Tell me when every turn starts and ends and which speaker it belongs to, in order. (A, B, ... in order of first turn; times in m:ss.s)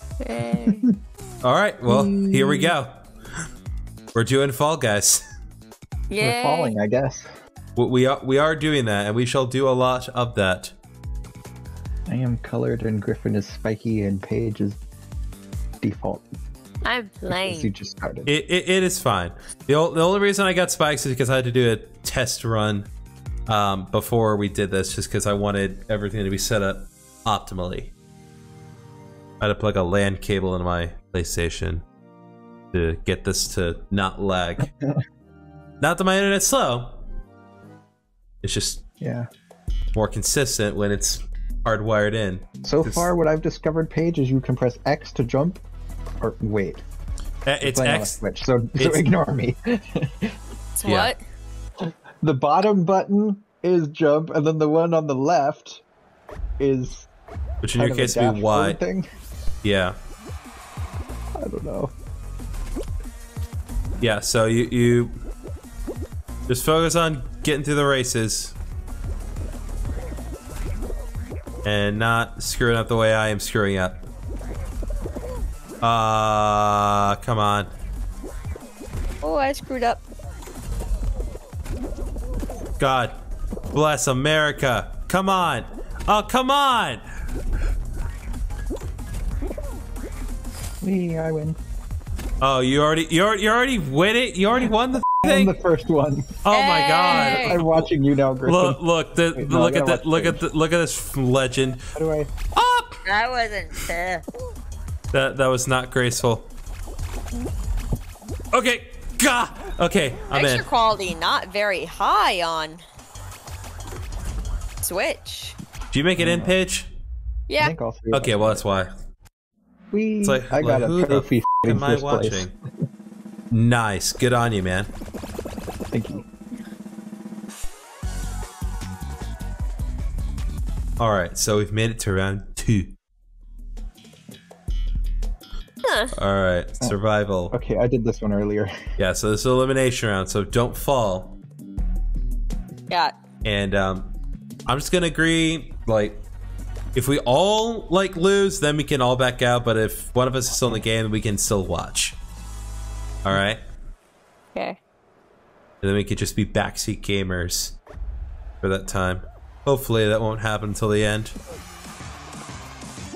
0:00.2-0:00.9 A
0:00.6-0:00.9 B
0:01.4-0:03.0 C
0:04.1-0:05.2 C
0:06.1-0:06.7 A
0:06.2-0:07.3 B
0:07.8-0:10.7 C
0:12.1-0:14.8 B
0:15.8-0:16.3 B
0:16.8-0:17.7 A
0:17.3-0:18.3 B
0:18.3-0:22.9 C
0:23.5-0:27.9 C
0:29.4-0:31.8 C
0:32.7-0:34.7 C
0:35.8-0:37.0 C
0:38.4-0:38.8 C
0:39.0-0:39.3 B
0:40.0-0:43.1 C
0:42.6-0:45.6 B
0:46.2-0:46.8 B
0:47.4-0:48.2 C
0:47.6-0:50.3 B
0:48.8-0:49.1 C
0:50.8-0:51.2 A
0:50.8-0:51.1 C
0:51.8-0:55.8 B
0:56.6-0:57.1 B
0:57.6-0:58.8 C
0:57.8-0:59.1 B
0:59.6-1:00.0 C
1:01.4-1:01.9 B
1:04.0-1:05.1 C
1:06.5-1:08.6 C
1:11.6-1:14.0 C
1:15.8-1:17.7 C
1:19.2-1:20.0 A
1:22.8-1:23.2 C
1:23.7-1:27.0 C
1:30.8-1:31.6 B
1:32.4-1:35.6 C
1:34.6-1:36.4 B
1:36.4-1:37.9 C
1:36.5-1:37.6 A
1:37.1-1:38.8 B
1:38.4-1:41.9 C
1:39.3-1:40.4 B
1:42.0-1:42.3 B
1:42.6-1:43.0 C
1:43.1-1:44.2 A
1:45.1-1:46.5 C
1:48.5-1:50.7 C
1:50.3-1:52.8 A
1:54.8-1:55.6 A
1:55.9-1:56.9 C
1:56.2-1:56.5 B
1:57.5-1:57.7 A
1:57.6-1:58.6 B
1:58.1-1:58.9 C
1:59.9-2:02.6 B
2:00.2-2:02.5 C
2:03.5-2:04.9 C
2:05.9-2:06.3 B
2:11.0-2:12.9 C
2:15.8-2:16.1 A
2:16.1-2:17.5 C
2:17.5-2:18.8 B
2:19.0-2:21.4 C
2:23.4-2:24.1 C
2:24.7-2:26.2 C
2:26.9-2:32.2 C
2:33.2-2:33.6 C
2:35.8-2:37.8 C
2:38.6-2:41.4 C